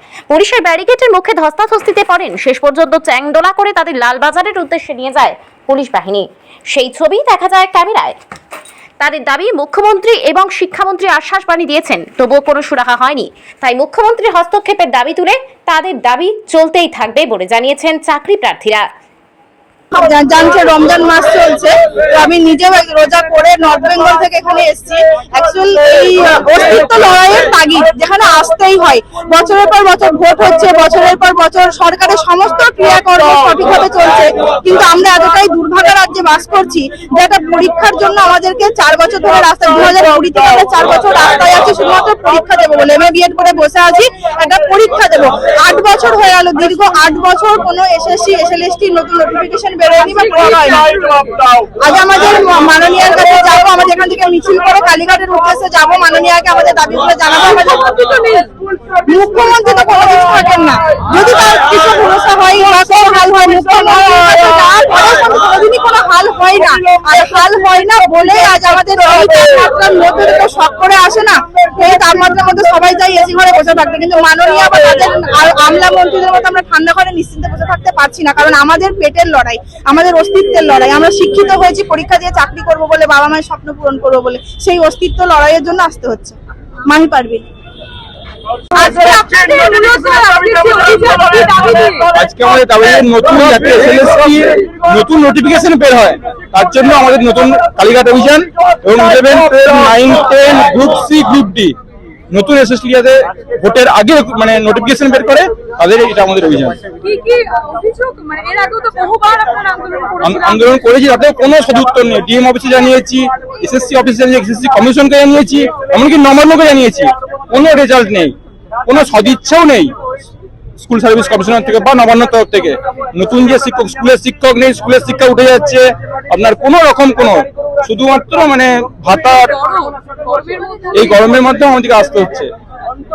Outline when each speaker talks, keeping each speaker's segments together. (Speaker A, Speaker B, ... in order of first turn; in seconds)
Speaker A: 0.3-8.2, 9.0-18.9
Speaker B: 19.9-51.1, 51.8-58.4, 59.0-87.4, 88.7-91.5
Speaker C: 91.2-92.0, 107.0-110.2, 130.4-130.7
Speaker D: 92.1-101.8, 102.3-106.8, 110.2-118.3, 118.8-119.9, 120.8-129.6, 130.9-132.5